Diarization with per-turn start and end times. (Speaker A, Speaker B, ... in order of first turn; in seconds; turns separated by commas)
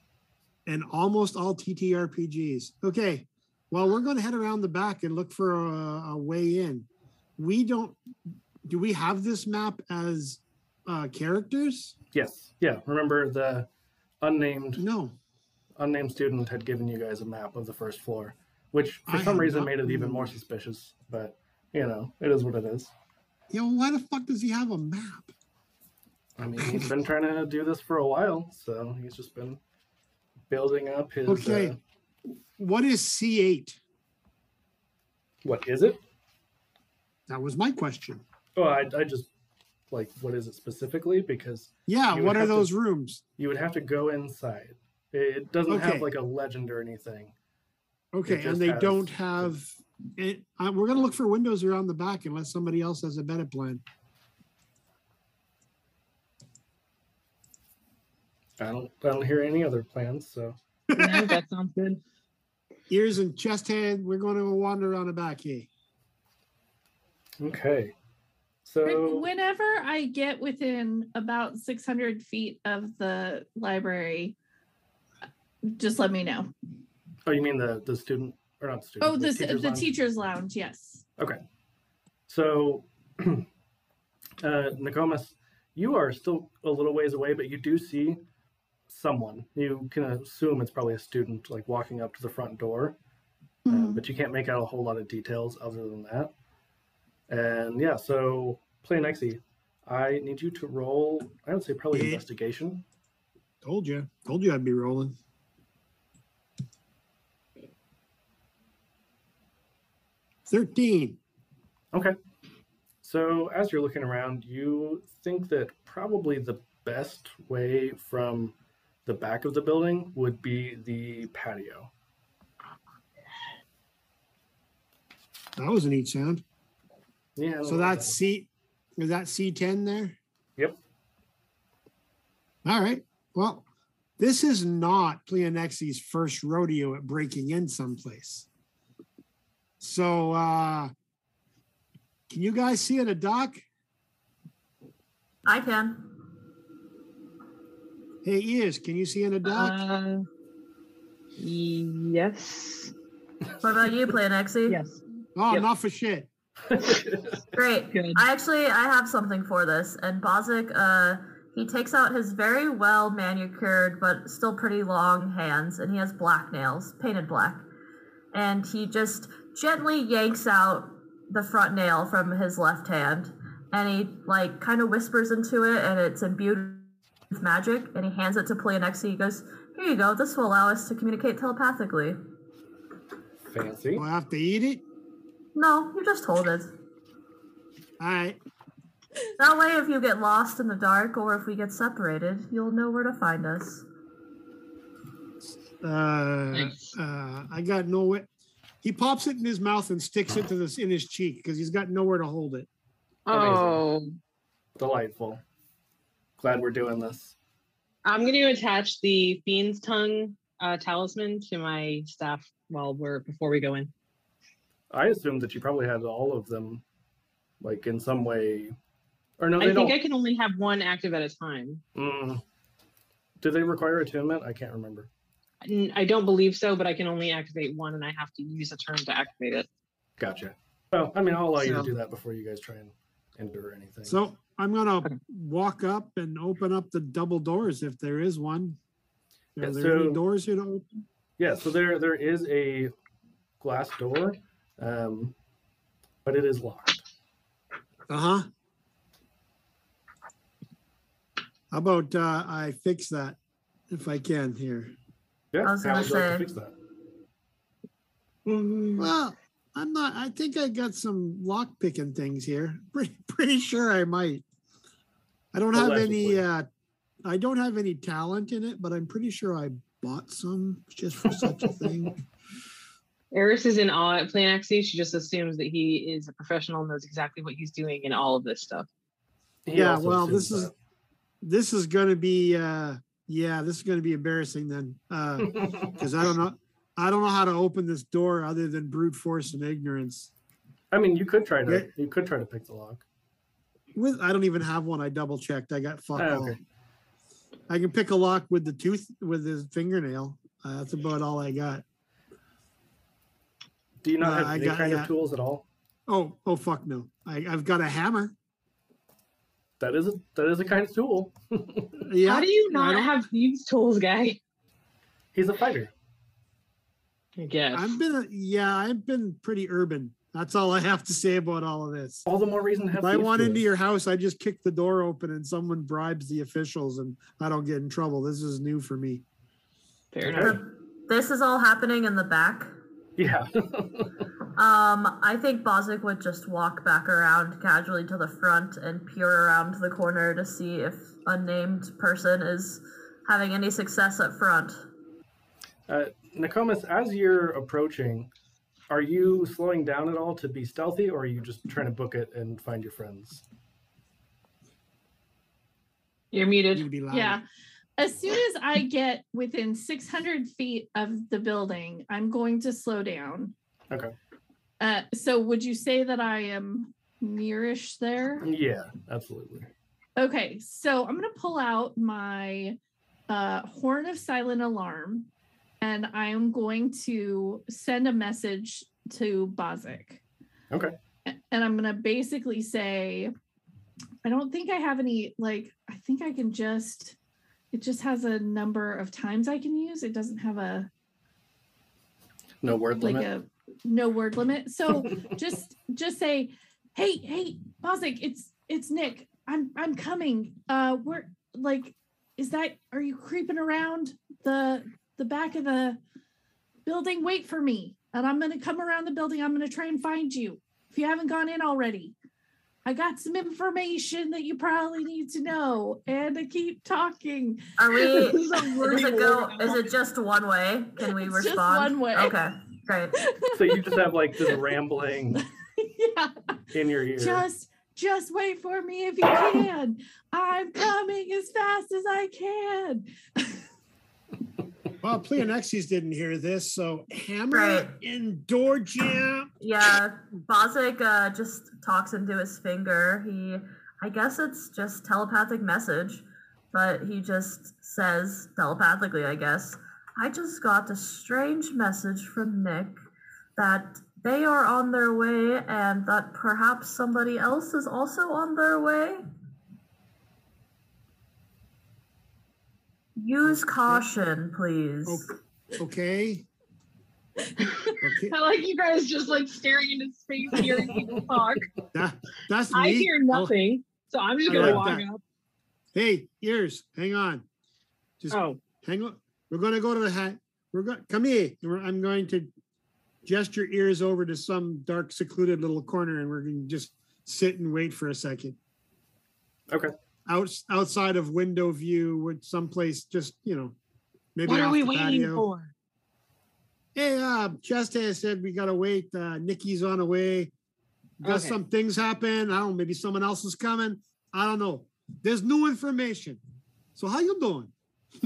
Speaker A: 0.7-8.0, Speaker A: 8.7-11.9, Speaker B: 12.1-13.7, Speaker B: 14.2-14.8, Speaker A: 14.8-15.2, Speaker B: 15.8-22.9, Speaker A: 19.1-20.4, Speaker A: 23.5-25.3, Speaker B: 26.4-29.6, Speaker A: 26.6-26.9, Speaker B: 30.5-31.8, Speaker A: 31.3-31.8, Speaker A: 32.6-33.8, Speaker B: 35.4-36.0, Speaker A: 37.3-38.2, Speaker B: 38.6-39.3, Speaker B: 39.9-42.7, Speaker A: 41.9-43.2, Speaker B: 43.4-47.3, Speaker A: 45.7-46.1, Speaker A: 48.1-53.8, Speaker B: 48.3-49.5, Speaker B: 58.6-60.6, Speaker A: 60.9-61.4, Speaker C: 61.0-62.0, Speaker A: 62.9-65.7, Speaker B: 67.4-67.9, Speaker B: 68.7-69.3, Speaker D: 68.8-74.3, Speaker D: 75.7-76.5, Speaker B: 77.3-79.9, Speaker D: 79.0-81.0, Speaker B: 82.3-83.5, Speaker B: 84.4-88.2, Speaker B: 88.9-93.0, Speaker A: 93.7-94.0, Speaker B: 93.7-96.3, Speaker B: 97.3-102.8, Speaker A: 101.9-102.2, Speaker A: 103.6-105.2, Speaker A: 110.5-111.2, Speaker B: 113.0-118.5, Speaker B: 119.1-121.9, Speaker A: 125.6-126.4, Speaker B: 127.4-128.2, Speaker A: 127.7-130.2, Speaker A: 132.7-133.7, Speaker A: 134.2-138.5, Speaker A: 139.8-140.9, Speaker A: 142.3-143.6, Speaker E: 145.5-146.1, Speaker A: 148.2-149.8, Speaker C: 149.5-150.2, Speaker C: 151.4-152.9, Speaker E: 153.6-154.8, Speaker C: 154.7-155.7, Speaker A: 155.4-156.3, Speaker B: 156.7-157.3, Speaker E: 157.6-167.6, Speaker C: 157.9-158.2, Speaker E: 168.3-182.2, Speaker B: 183.5-184.1, Speaker A: 183.9-184.8, Speaker E: 185.6-186.7, Speaker A: 188.0-188.4, Speaker E: 189.4-193.8, Speaker A: 195.8-198.3, Speaker C: 196.5-196.9, Speaker A: 198.8-202.7, Speaker C: 203.3-204.2, Speaker B: 203.3-203.8, Speaker B: 204.8-205.4, Speaker B: 206.4-207.4, Speaker C: 208.1-213.9, Speaker B: 214.9-216.8, Speaker B: 217.6-218.8, Speaker B: 219.4-220.0, Speaker C: 219.6-221.8, Speaker B: 222.0-222.4, Speaker B: 223.4-225.1, Speaker C: 225.6-229.7, Speaker B: 230.2-234.2, Speaker A: 231.6-231.9, Speaker A: 234.1-238.8, Speaker A: 239.6-240.9, Speaker B: 239.6-240.2, Speaker B: 241.4-242.9, Speaker B: 243.6-245.3, Speaker B: 246.2-247.0, Speaker A: 248.1-248.5, Speaker A: 251.7-253.4, Speaker A: 253.9-254.9, Speaker B: 255.5-256.7, Speaker E: 255.6-256.5, Speaker A: 259.0-264.4, Speaker A: 265.5-266.7, Speaker B: 265.7-266.4, Speaker A: 267.2-272.2, Speaker C: 273.3-278.9, Speaker B: 279.7-280.7, Speaker A: 279.8-280.7, Speaker A: 281.4-290.3, Speaker B: 285.5-285.9, Speaker B: 290.9-293.0, Speaker A: 293.9-296.6, Speaker B: 296.2-296.6, Speaker A: 297.7-301.8, Speaker B: 304.0-305.7, Speaker A: 304.2-305.1, Speaker A: 306.1-308.3, Speaker B: 309.8-312.0, Speaker A: 312.1-313.1, Speaker C: 312.2-314.4, Speaker B: 315.3-315.9, Speaker C: 317.4-318.0, Speaker A: 317.7-322.2, Speaker B: 322.3-323.6, Speaker A: 323.0-329.2, Speaker C: 330.1-330.6, Speaker B: 330.2-330.6, Speaker E: 330.4-332.7, Speaker B: 333.2-334.1, Speaker E: 334.6-344.8, Speaker B: 345.9-348.3, Speaker B: 348.9-353.4, Speaker C: 356.3-356.9, Speaker A: 356.7-357.4, Speaker D: 357.1-357.4, Speaker D: 358.0-363.5, Speaker D: 364.8-368.5, Speaker B: 368.4-369.7, Speaker D: 370.2-372.8, Speaker D: 373.3-375.3, Speaker D: 375.8-380.2, Speaker D: 381.3-383.3, Speaker D: 384.2-387.2, Speaker D: 387.7-390.9, Speaker B: 392.6-393.3, Speaker D: 393.0-406.0, Speaker D: 406.9-412.1, Speaker D: 412.9-417.7, Speaker E: 417.8-423.2, Speaker C: 418.0-419.9, Speaker D: 421.1-422.4, Speaker D: 423.2-424.6, Speaker B: 423.5-425.4, Speaker D: 425.8-426.6, Speaker B: 426.7-427.4, Speaker D: 427.2-433.6, Speaker A: 435.0-439.5, Speaker E: 437.5-437.9, Speaker E: 439.6-453.0, Speaker E: 453.6-459.2, Speaker E: 463.2-465.2, Speaker A: 465.1-466.5, Speaker C: 467.6-471.7, Speaker A: 468.0-468.4, Speaker A: 471.9-473.5, Speaker C: 472.7-475.2, Speaker A: 474.5-475.1, Speaker B: 474.5-474.9, Speaker A: 475.9-477.4, Speaker A: 478.2-482.5, Speaker C: 478.3-478.6, Speaker A: 483.2-488.6, Speaker A: 490.3-493.8, Speaker A: 494.4-495.5, Speaker C: 494.5-495.7, Speaker A: 496.9-500.5, Speaker A: 501.2-506.4, Speaker C: 501.2-501.6, Speaker A: 507.0-507.7